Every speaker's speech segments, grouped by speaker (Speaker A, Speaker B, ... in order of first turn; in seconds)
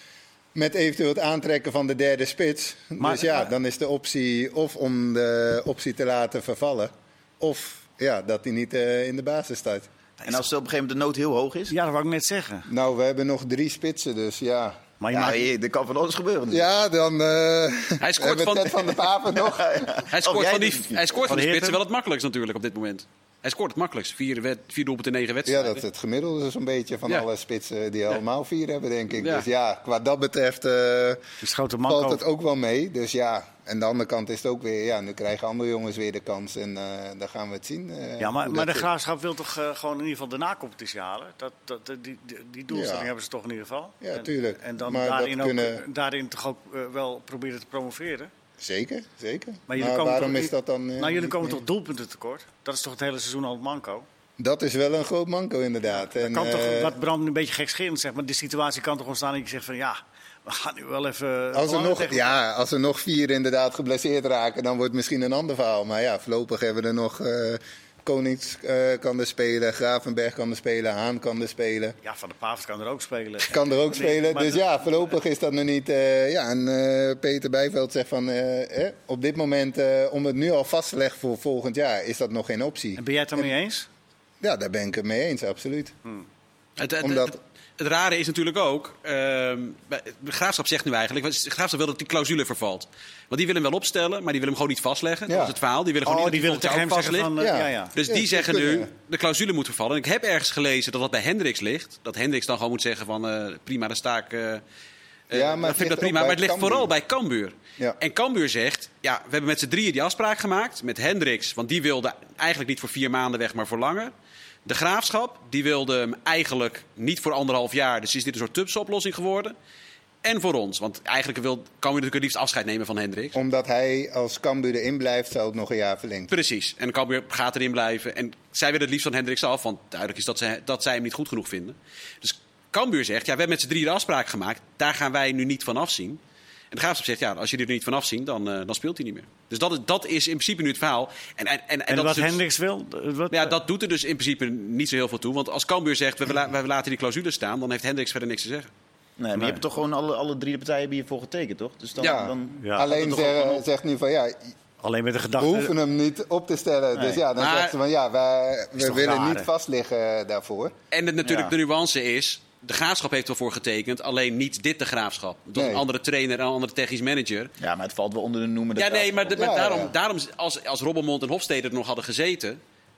Speaker A: 0.5-9.9, 12.7-14.8, 16.5-19.9, 25.5-31.2, 31.9-38.9, 42.7-43.1, 44.0-45.9, 48.6-51.6, 54.4-57.0, 61.5-72.0, 73.5-83.5, 84.4-86.0, 87.0-87.3, 95.3-95.5, 97.4-98.9, 105.3-106.9, 123.3-126.3, 152.0-154.5, 155.4-160.7, 165.6-165.8, 169.4-169.9
Speaker B: 3.0-3.5, 11.7-12.7, 15.0-15.5, 21.2-21.8, 31.4-32.2, 38.2-48.3, 49.7-54.1, 56.0-62.4, 72.0-74.7, 83.0-83.9, 96.0-98.0, 141.9-143.6, 149.4-149.6, 152.6-152.9, 154.8-155.7, 158.8-159.5
Speaker C: 10.2-11.8, 15.1-16.6, 19.5-21.2, 149.2-153.4, 156.9-157.2, 161.2-161.6, 167.6-169.6
Speaker D: 18.0-19.1, 20.1-25.8, 29.2-29.5, 86.8-97.4, 97.9-104.6, 105.3-114.1, 114.7-119.5, 120.2-123.4, 126.3-136.2, 136.7-142.4, 143.3-148.7, 152.9-153.6, 157.4-157.8, 160.9-167.5, 168.8-172.6